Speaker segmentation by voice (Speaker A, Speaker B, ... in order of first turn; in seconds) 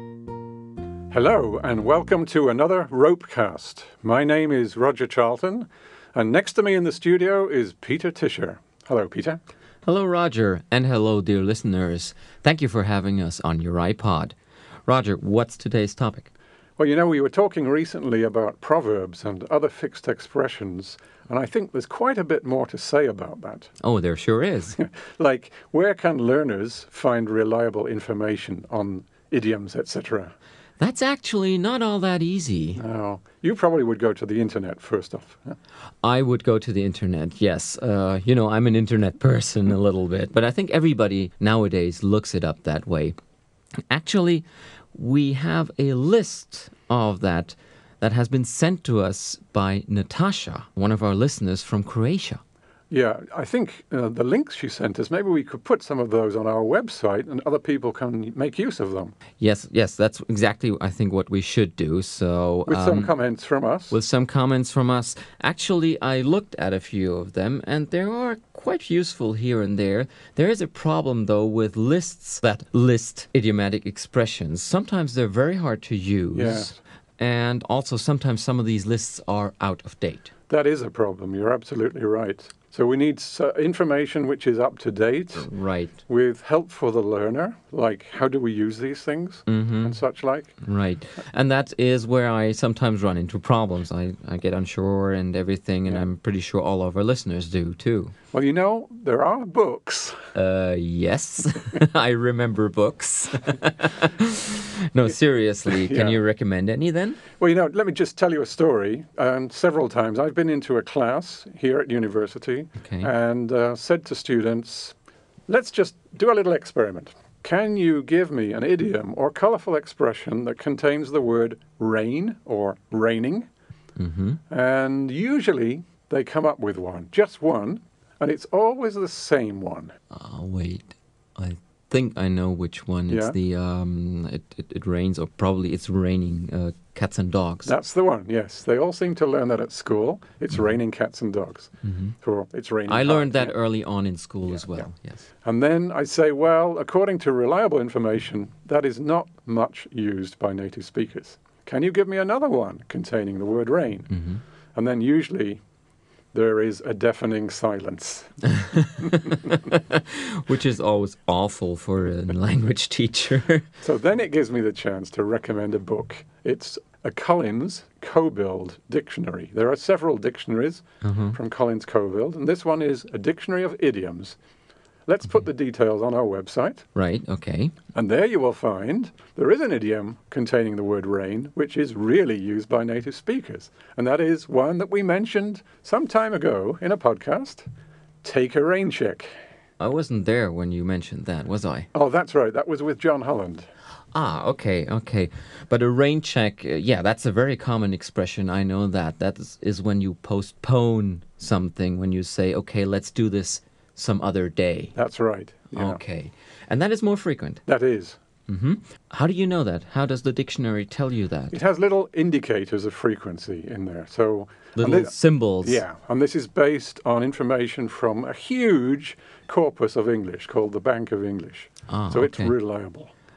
Speaker A: 1.1-9.4, 16.8-23.7, 24.8-30.3, 32.8-35.5, 52.9-59.1, 62.7-64.0, 76.3-76.8, 80.5-85.5, 86.1-90.5, 98.3-100.3, 105.7-106.2, 107.3-114.9, 115.5-123.5, 124.5-129.9, 133.1-133.4, 137.6-143.5, 144.5-144.8, 145.4-154.2, 154.7-155.6, 156.3-158.9, 163.8-174.3, 175.1-176.8, 177.9-187.7, 188.2-189.3, 191.9-193.7, 204.9-206.0, 207.7-208.2, 211.5-223.1
Speaker B: 9.8-14.3, 14.8-16.3, 23.8-24.8, 30.8-32.8, 36.0-43.1, 43.9-52.4, 59.4-63.1, 63.9-80.3, 85.3-86.0, 89.5-90.0, 90.6-98.1, 100.3-107.2, 112.8-113.1, 124.0-124.4, 130.1-137.7, 141.8-142.1, 142.9-145.2, 154.1-154.4, 158.6-163.7, 171.0-171.4, 176.9-177.7, 189.8-191.9, 194.1-204.9, 205.7-207.6, 208.5-211.6, 214.8-215.8, 221.9-222.5